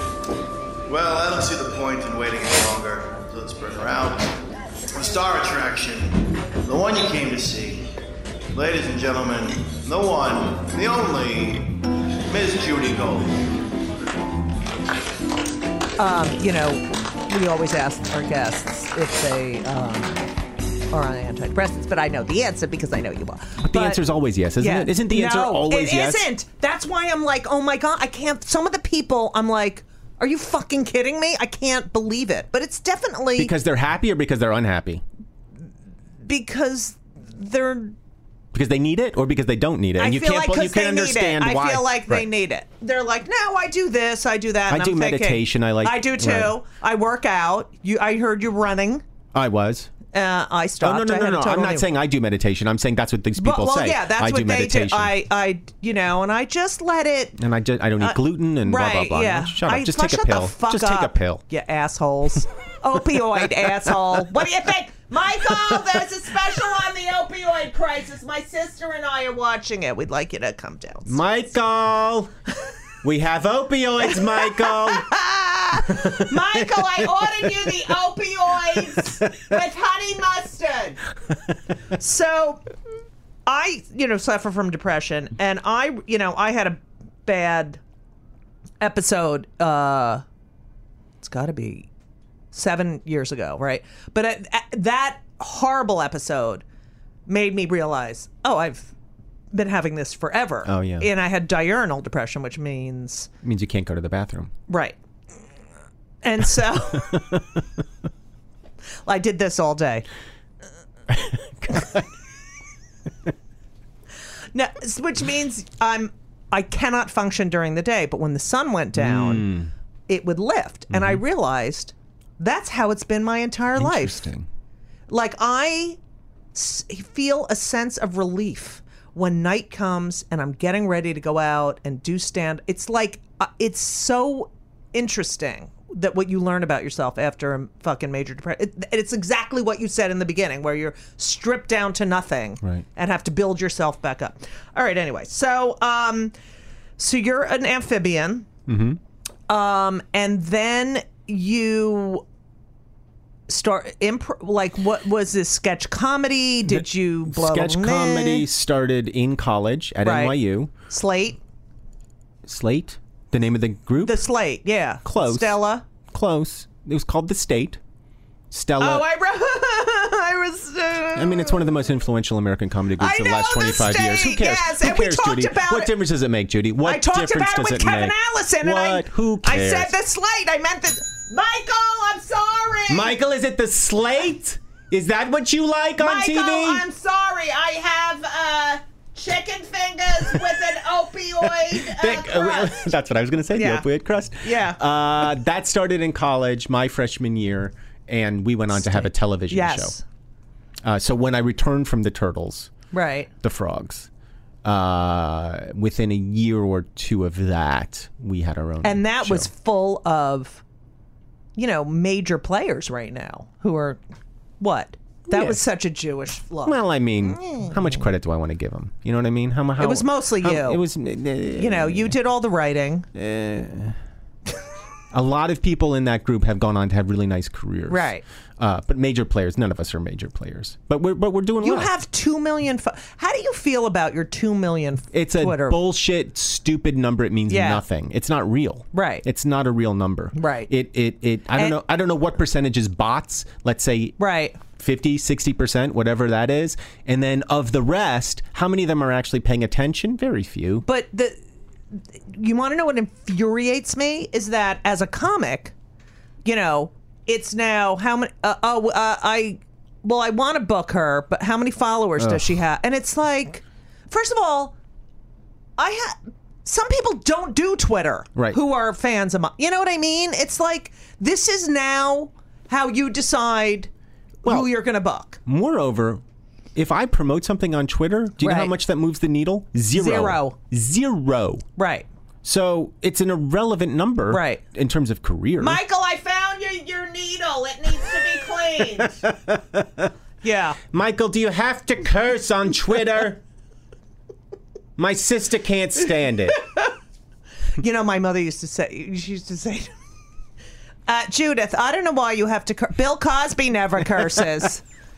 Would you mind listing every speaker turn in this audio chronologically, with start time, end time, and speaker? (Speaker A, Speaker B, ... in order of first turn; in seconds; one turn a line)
Speaker A: 0.8-4.4
Speaker A: 4.9-7.9
Speaker A: 8.5-11.7
Speaker A: 12.3-13.4
Speaker B: 16.0-20.2
Speaker B: 20.9-24.0
Speaker C: 23.6-26.3
Speaker B: 24.6-33.5
Speaker C: 33.4-35.0
Speaker B: 36.2-38.0
Speaker C: 38.5-42.3
Speaker B: 40.0-49.0
Speaker C: 44.7-46.5
Speaker C: 49.3-49.9
Speaker B: 50.1-51.9
Speaker C: 50.8-55.1
Speaker B: 53.4-57.4
Speaker C: 57.4-61.4
Speaker B: 58.0-71.2
Speaker C: 71.0-72.3
Speaker C: 73.0-75.1
Speaker B: 74.1-81.0
Speaker C: 75.8-76.8
Speaker B: 81.9-82.6
Speaker B: 83.5-87.8
Speaker B: 88.8-90.2
Speaker B: 91.2-91.9
Speaker B: 92.5-96.6
Speaker B: 97.3-98.9
Speaker B: 99.5-103.3
Speaker C: 100.7-101.1
Speaker C: 103.4-104.5
Speaker B: 104.7-105.0
Speaker B: 106.2-107.4
Speaker B: 109.0-110.0
Speaker C: 111.1-112.0
Speaker B: 114.5-119.5
Speaker C: 118.9-119.7
Speaker B: 120.1-124.2
Speaker C: 120.9-121.2
Speaker C: 123.8-124.5
Speaker B: 125.1-126.0
Speaker B: 126.5-146.3
Speaker B: 147.0-148.5
Speaker C: 148.7-149.0
Speaker B: 149.5-152.2
Speaker B: 153.5-158.4
Speaker C: 156.7-160.7
Speaker B: 160.0-161.4
Speaker C: 162.4-164.2
Speaker B: 164.0-165.8
Speaker C: 165.0-167.8
Speaker C: 168.5-169.0
Speaker B: 168.8-171.6
Speaker C: 171.1-179.9
Speaker B: 173.0-175.9
Speaker B: 176.8-183.1
Speaker C: 182.9-186.8
Speaker B: 186.0-192.9
Speaker C: 191.6-199.9
Speaker B: 193.5-193.8
Speaker B: 194.4-194.8
Speaker B: 198.7-200.0
Speaker C: 200.8-202.7
Speaker B: 202.9-203.3
Speaker C: 203.4-204.1
Speaker C: 204.6-209.5
Speaker B: 208.8-210.6
Speaker B: 211.6-214.0
Speaker B: 214.6-216.8
Speaker C: 215.3-215.6
Speaker C: 216.6-222.2
Speaker B: 217.4-217.7
Speaker B: 219.8-220.8
Speaker B: 221.6-223.1
Speaker C: 223.1-223.9
Speaker C: 225.1-231.9
Speaker B: 227.9-228.2
Speaker B: 231.6-235.8
Speaker C: 235.1-250.8
Speaker B: 237.5-237.8
Speaker B: 238.9-239.2
Speaker B: 240.3-240.7
Speaker B: 244.2-244.6
Speaker B: 250.8-251.4
Speaker B: 251.9-255.7
Speaker B: 256.4-264.8
Speaker C: 262.2-262.5
Speaker B: 265.8-273.9
Speaker C: 274.4-274.7
Speaker B: 274.4-275.4
Speaker C: 275.4-276.2
Speaker C: 276.7-281.6
Speaker B: 278.4-278.7
Speaker B: 279.9-280.6
Speaker B: 281.8-282.1
Speaker C: 282.4-285.8
Speaker B: 284.3-284.6
Speaker B: 285.6-289.2
Speaker C: 289.0-290.1
Speaker B: 290.4-290.8
Speaker C: 290.9-293.4
Speaker C: 295.0-296.6
Speaker B: 297.8-299.9
Speaker B: 301.1-304.8